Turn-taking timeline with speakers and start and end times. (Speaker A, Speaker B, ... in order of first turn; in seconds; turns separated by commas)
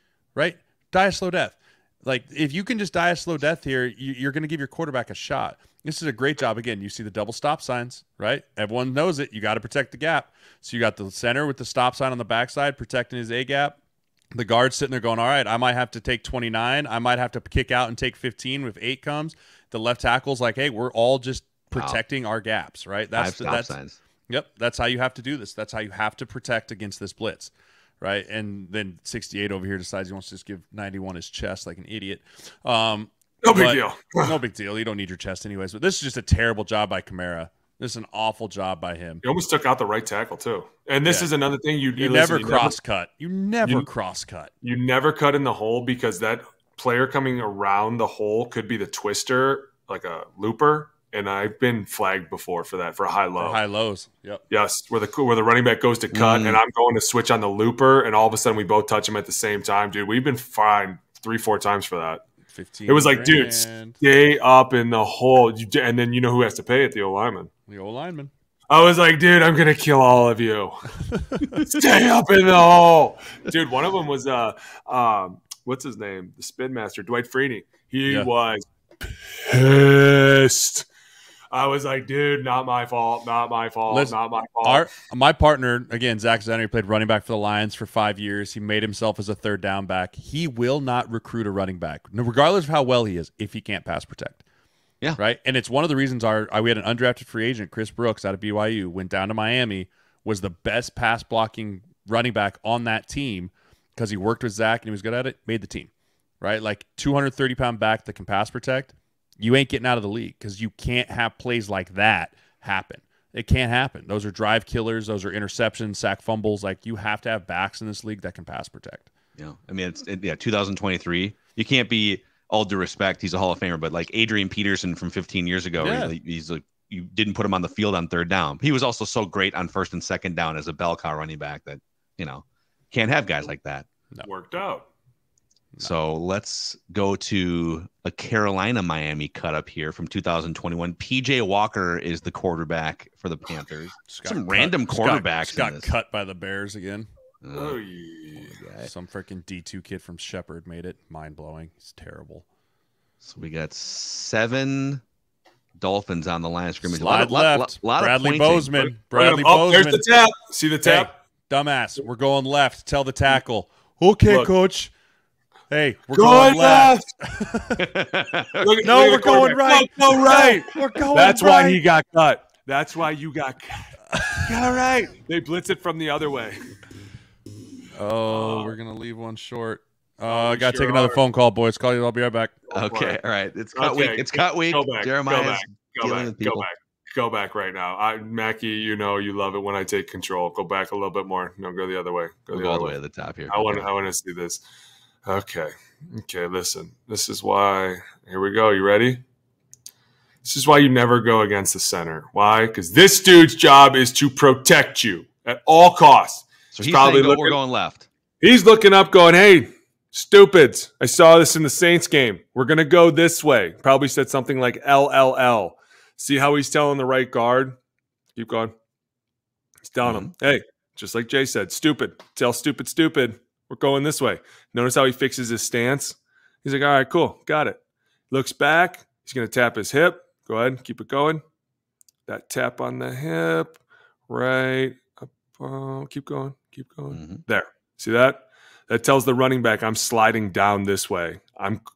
Speaker A: 0.3-13.8, Speaker A: 14.3-23.8, Speaker B: 21.7-22.0, Speaker B: 23.1-24.0, Speaker A: 24.3-39.2, Speaker C: 33.4-34.3, Speaker C: 39.2-42.8, Speaker A: 41.0-41.3, Speaker A: 41.9-44.5, Speaker C: 44.6-53.6, Speaker A: 53.4-54.4, Speaker C: 54.5-62.2, Speaker B: 56.1-56.6, Speaker A: 62.5-64.0, Speaker C: 62.9-67.5, Speaker A: 67.7-68.3, Speaker C: 68.7-70.8, Speaker A: 71.2-71.6, Speaker C: 71.6-80.9, Speaker C: 81.5-84.9, Speaker A: 83.9-94.4, Speaker A: 95.2-105.9, Speaker A: 106.4-119.1, Speaker B: 119.4-133.8, Speaker A: 125.8-126.1, Speaker C: 134.2-134.8, Speaker B: 135.8-145.9, Speaker A: 144.1-147.1, Speaker B: 147.4-147.8, Speaker C: 147.5-148.6, Speaker B: 148.4-148.9, Speaker A: 148.8-152.4, Speaker B: 153.2-155.0, Speaker B: 155.8-158.9, Speaker A: 156.8-160.0, Speaker C: 159.1-161.1, Speaker A: 160.8-164.9, Speaker A: 165.7-167.8, Speaker C: 166.1-167.1, Speaker B: 167.8-168.7, Speaker C: 168.6-176.6, Speaker A: 168.8-171.8, Speaker A: 174.1-174.5, Speaker A: 177.9-182.6, Speaker C: 178.3-178.7, Speaker C: 180.3-181.2, Speaker C: 182.7-183.2, Speaker B: 182.7-186.7, Speaker C: 183.7-192.9, Speaker B: 192.5-193.9, Speaker C: 193.5-194.6, Speaker C: 195.2-199.2, Speaker C: 200.4-207.6, Speaker B: 206.7-208.1, Speaker C: 208.4-217.8, Speaker C: 218.3-218.7, Speaker C: 219.9-227.8, Speaker B: 220.0-220.3, Speaker C: 228.3-231.4, Speaker C: 232.3-241.8, Speaker B: 237.1-237.4